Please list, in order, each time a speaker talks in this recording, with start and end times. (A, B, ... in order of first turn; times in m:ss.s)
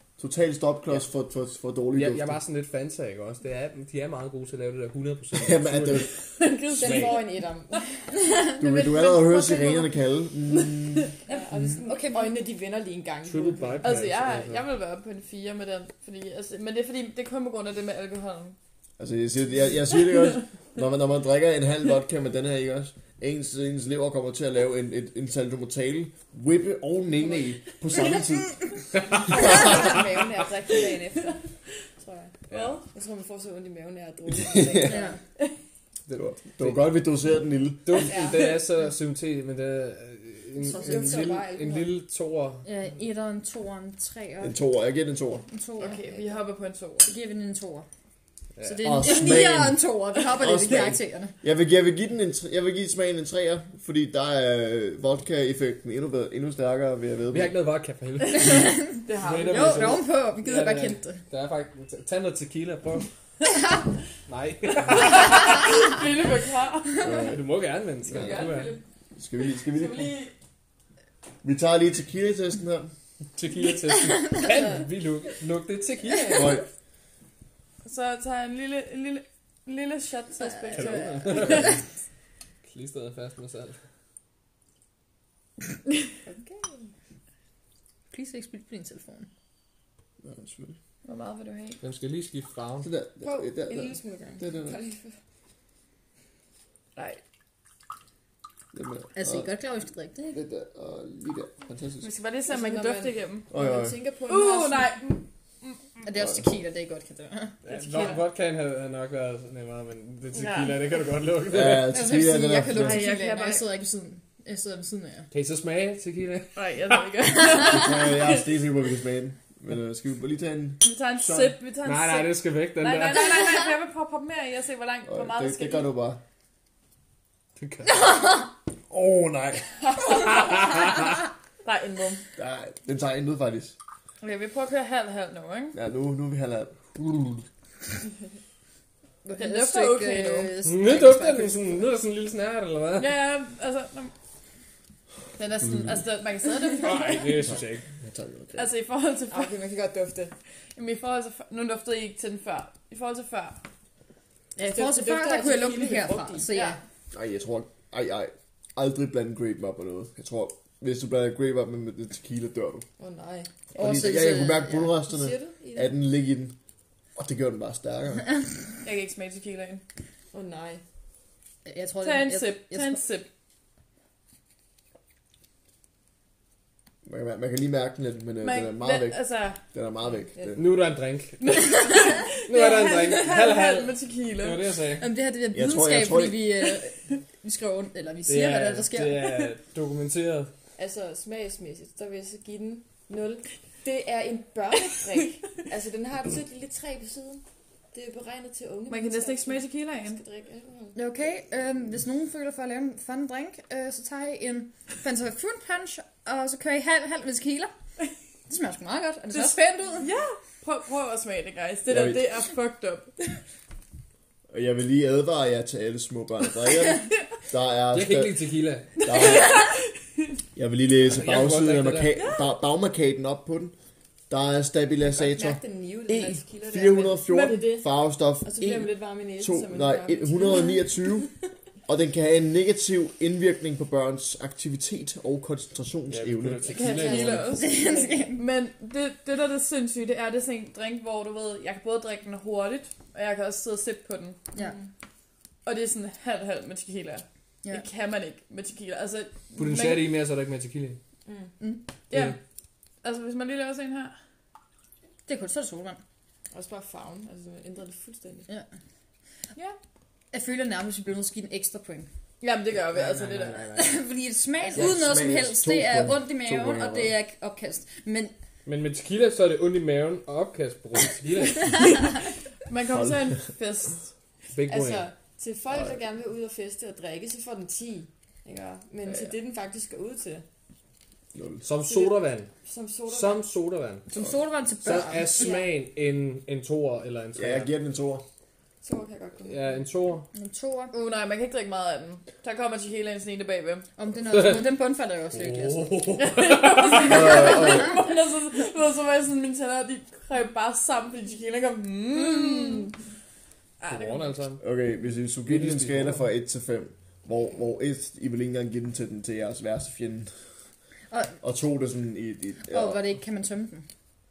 0:00.2-0:02.4 A
0:01.9-0:06.2 B
0:05.3-0:06.1 A
0:06.2-0:09.9 C
0:06.8-0:08.0 D
0:06.8-0:07.2 B
0:08.6-0:11.1 A
0:10.5-0:11.1 C
0:11.2-0:13.9 D
0:11.8-0:12.4 E
0:13.2-0:14.6 B
0:13.8-0:18.6 C
0:19.0-0:28.8 A
0:29.1-0:31.4 D
0:29.4-0:29.7 A
0:32.0-0:35.2 D
0:32.5-0:32.8 B
0:32.5-0:32.8 C
0:34.3-0:35.0 A
0:34.8-0:35.2 E
0:36.1-0:36.9 B
0:36.2-0:38.1 A
0:37.8-0:42.6 B
0:38.0-0:38.4 D
0:40.6-0:41.3 E
0:40.7-0:41.9 D
0:42.6-0:44.6 E
0:44.4-0:45.4 A
0:45.5-0:46.1 E
0:45.8-0:47.1 C
0:47.0-0:47.8 E
0:48.6-0:49.0 B
0:48.6-0:51.3 E
0:48.8-0:57.6 A
0:57.3-1:03.1 B
0:58.4-1:01.2 E
0:59.0-0:59.8 C
0:59.4-0:59.8 D
1:04.2-1:05.5 B
1:04.9-1:07.3 C
1:07.0-1:07.4 A
1:07.2-1:08.7 B
1:08.1-1:08.4 A
1:08.1-1:08.8 D
1:08.2-1:08.7 C
1:09.2-1:10.1 A
1:09.7-1:10.3 C
1:11.4-1:12.9 A
1:13.3-1:16.6 B
1:16.3-1:16.6 A
1:17.8-1:21.8 C
1:20.7-1:21.8 B
1:22.6-1:23.8 B
1:26.2-1:26.9 D
1:28.1-1:29.3 E
1:30.2-1:30.8 A
1:31.0-1:31.8 C
1:31.8-1:32.9 B
1:32.8-1:34.8 A
1:33.2-1:35.1 D
1:37.0-1:37.2 C
1:38.7-1:39.5 A
1:39.1-1:40.4 E
1:40.3-1:42.1 A
1:42.0-1:43.5 C
1:42.5-1:45.0 D
1:43.5-1:44.0 A
1:44.2-1:45.8 C
1:46.0-1:47.6 E
1:47.6-1:51.9 B
1:47.7-1:48.2 C
1:50.3-1:50.9 C
1:51.5-1:53.0 A
1:51.7-1:55.3 E
1:52.7-1:53.7 C
1:55.3-1:57.0 B
1:56.5-1:58.5 C
1:57.7-2:01.6 A
2:00.8-2:05.9 C
2:01.8-2:03.3 B
2:05.1-2:06.2 A
2:07.6-2:08.0 B
2:08.9-2:09.8 A
2:10.4-2:10.8 B
2:11.6-2:12.2 C
2:12.4-2:13.8 A
2:14.2-2:15.8 C
2:15.7-2:17.4 A
2:19.2-2:21.8 E
2:19.3-2:20.5 C
2:20.6-2:23.2 B
2:22.9-2:24.1 C
2:25.4-2:27.4 C
2:26.8-2:27.8 B
2:27.4-2:28.7 A
2:28.5-2:29.6 C
2:29.3-2:30.3 D
2:30.7-2:33.6 C
2:34.6-2:36.8 E
2:34.6-2:36.6 D
2:36.5-2:36.8 C
2:37.1-2:42.8 A
2:43.0-2:43.5 D
2:43.7-2:44.9 E
2:43.7-2:46.6 A
2:45.0-2:45.9 D
2:47.1-2:48.3 A
2:48.8-2:49.8 C
2:50.3-2:50.8 D
2:51.6-2:53.0 E
2:52.0-2:53.3 C
2:57.0-3:00.7 A
2:58.4-2:59.6 C
3:00.3-3:00.6 D
3:00.6-3:01.6 B
3:01.4-3:04.7 C
3:02.4-3:05.1 B
3:05.0-3:09.2 E
3:05.5-3:06.5 A
3:08.3-3:10.5 B
3:10.8-3:21.0 D
3:18.9-3:20.2 C
3:20.9-3:27.7 E
3:28.5-3:30.1 E
3:29.3-3:33.4 C
3:31.9-3:32.3 A
3:34.5-3:38.4 A
3:37.9-3:39.1 B
3:39.0-3:39.6 A
3:39.0-3:39.8 C
3:40.5-3:43.7 A
3:41.0-3:42.2 B
3:42.1-3:42.5 C
3:44.3-3:51.3 A
3:45.0-3:47.5 D
3:47.3-3:47.9 C
3:48.4-3:50.9 D
3:51.8-3:56.8 A
3:56.1-3:57.6 B
3:56.6-4:04.4 C
3:56.8-3:58.2 D
3:57.6-3:58.4 E
4:04.6-4:04.9 D
4:05.6-4:10.1 C
4:09.5-4:11.0 B
4:11.2-4:11.5 D
4:12.1-4:12.4 B
4:12.1-4:12.4 C
4:13.0-4:14.2 C
4:15.2-4:16.0 E
4:16.5-4:18.5 D
4:20.3-4:22.1 E
4:22.4-4:23.8 C
4:22.7-4:23.9 B
4:23.7-4:28.3 E
4:24.7-4:27.1 A
4:28.6-4:32.0 B
4:32.6-4:34.1 C
4:32.9-4:33.3 A
4:34.5-4:35.1 B
4:34.6-4:40.4 D
4:41.3-4:41.6 A
4:41.6-4:42.5 B
4:42.6-4:43.4 D
4:43.1-4:44.0 B
4:44.1-4:45.6 E
4:44.8-4:47.7 B
4:45.4-4:45.6 D
4:47.4-4:48.2 A
4:48.8-4:49.8 D
4:49.4-4:50.3 B
4:50.3-4:50.9 E
4:50.9-4:53.9 C
4:54.0-4:56.0 E
4:54.3-4:54.7 B
4:55.3-4:57.8 B
4:56.1-5:02.9 C
4:57.1-4:57.8 A
5:03.8-5:04.5 C
5:03.8-5:04.6 B
5:04.6-5:10.3 A
5:05.4-5:06.2 B
5:11.1-5:11.4 E
5:11.4-5:13.0 A
5:12.6-5:13.9 E